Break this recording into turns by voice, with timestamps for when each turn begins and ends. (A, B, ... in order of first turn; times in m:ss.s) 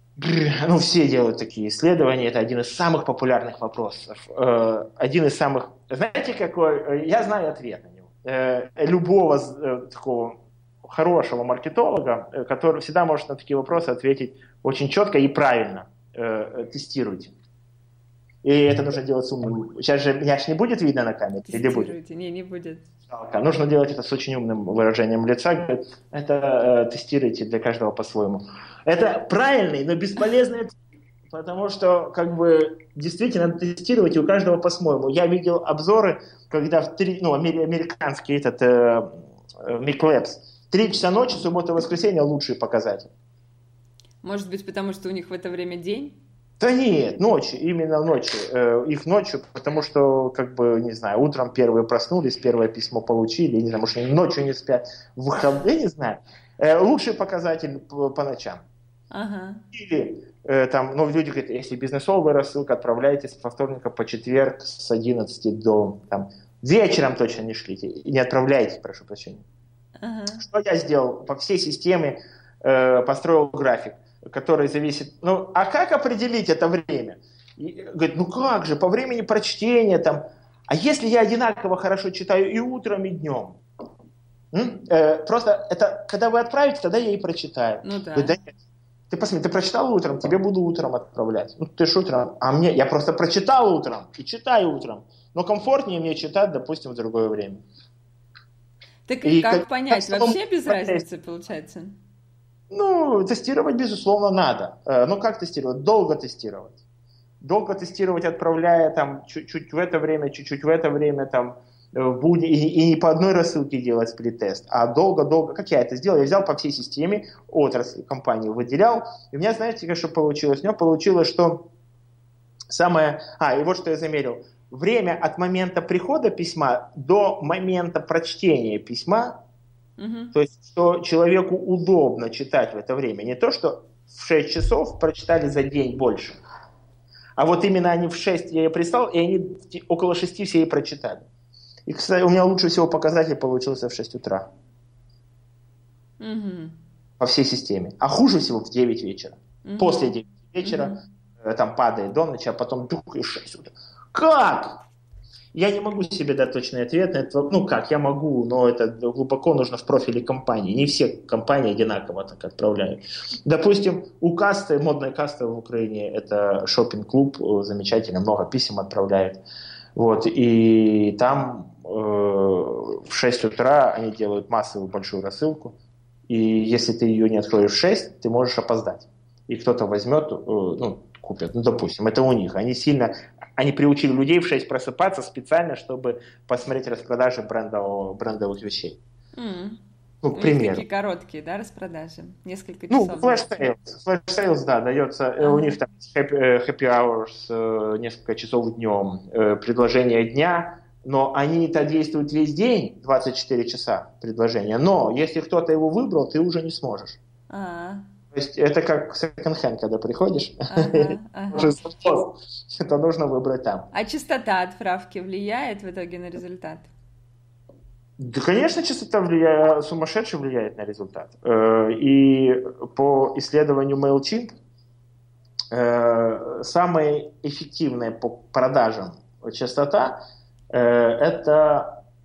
0:00.2-0:17.3 A
0:18.4-0:22.0 A
0:21.5-0:22.9 B
0:23.1-0:43.1 A
0:44.2-0:46.2 B
0:46.6-0:58.6 A
0:59.1-0:59.6 B
0:59.7-1:09.4 A
1:10.0-1:10.4 B
1:10.4-1:23.6 A
1:24.5-1:28.5 A
1:27.8-1:28.4 B
1:29.1-1:37.6 A
1:39.1-1:42.0 B
1:39.2-1:41.0 A
1:42.7-1:46.8 A
1:47.4-2:01.7 A
2:02.7-2:09.4 A
2:10.0-2:10.3 B
2:10.3-2:16.4 A
2:17.4-2:21.3 A
2:21.9-2:24.5 A
2:26.2-2:26.8 B
2:27.2-2:34.8 A
2:29.6-2:31.0 B
2:35.5-2:49.4 A
2:50.0-2:55.8 A
2:56.3-3:09.0 A
3:09.4-3:09.8 B
3:10.2-3:10.8 A
3:10.3-3:13.7 B
3:12.9-3:27.2 A
3:15.4-3:15.8 B
3:27.5-3:28.0 B
3:28.3-3:33.9 A
3:30.7-3:31.7 B
3:33.9-3:36.9 B
3:38.2-3:44.5 A
3:45.7-3:50.2 A
3:50.7-3:52.0 A